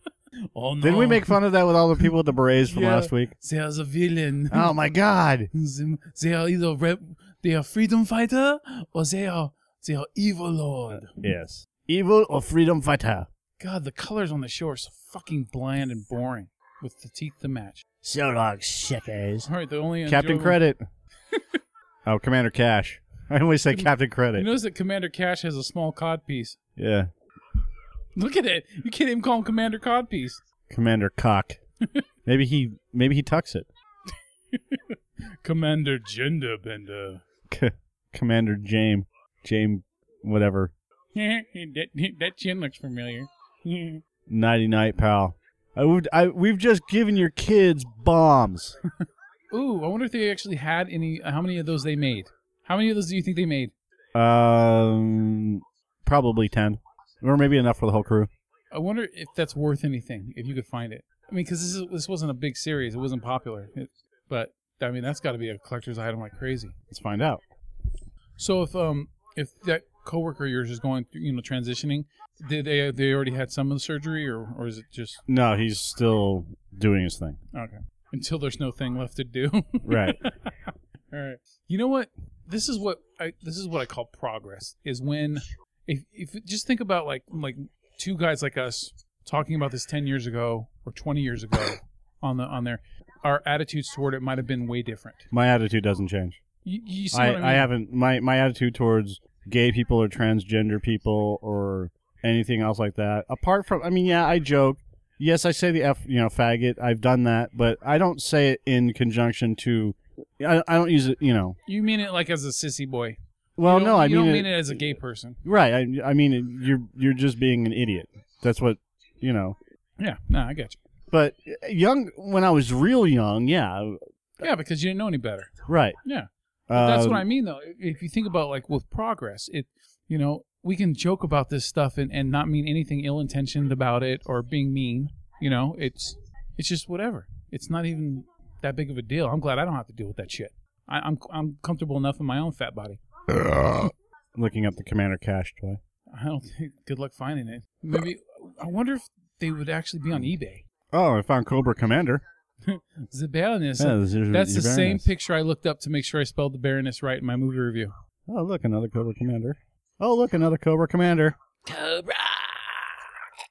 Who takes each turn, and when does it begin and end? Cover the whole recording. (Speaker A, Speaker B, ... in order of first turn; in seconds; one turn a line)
Speaker A: 0.4-1.4
Speaker B: 0.8-3.3
Speaker A: 2.7-4.7
Speaker B: 4.5-5.5
Speaker A: 5.5-11.2
Speaker B: 11.1-13.3
Speaker A: 13.6-17.8
Speaker B: 18.0-19.5
Speaker A: 19.4-20.6
Speaker B: 20.1-20.8
Speaker A: 21.3-21.6
Speaker B: 22.1-24.5
Speaker A: 23.7-26.6
Speaker B: 26.8-27.1
Speaker A: 28.1-30.4
Speaker B: 30.7-31.6
Speaker B: 32.2-33.7
Speaker A: 34.5-37.2
Speaker B: 37.5-40.7
Speaker A: 41.1-44.0
Speaker B: 44.3-48.8
Speaker A: 49.5-53.7
Speaker B: 54.1-58.3
Speaker A: 58.7-66.7
Speaker B: 66.9-67.4
Speaker A: 68.4-75.2
Speaker B: 75.3-77.4
Speaker A: 77.5-95.3
Speaker B: 79.8-80.2
Speaker B: 95.3-96.4
Speaker A: 96.6-97.7
Speaker B: 97.1-111.6
Speaker A: 111.7-115.4
Speaker B: 113.6-114.9
Speaker B: 115.4-119.5
Speaker A: 120.0-120.8
Speaker B: 121.1-124.0
Speaker A: 124.4-125.5
Speaker B: 125.7-126.0
Speaker A: 126.0-143.0
Speaker B: 126.7-127.2
Speaker B: 143.3-145.8
Speaker A: 146.1-150.6
Speaker B: 150.9-152.2
Speaker A: 152.6-157.9
Speaker B: 153.8-155.1
Speaker B: 158.3-161.3
Speaker A: 161.7-163.0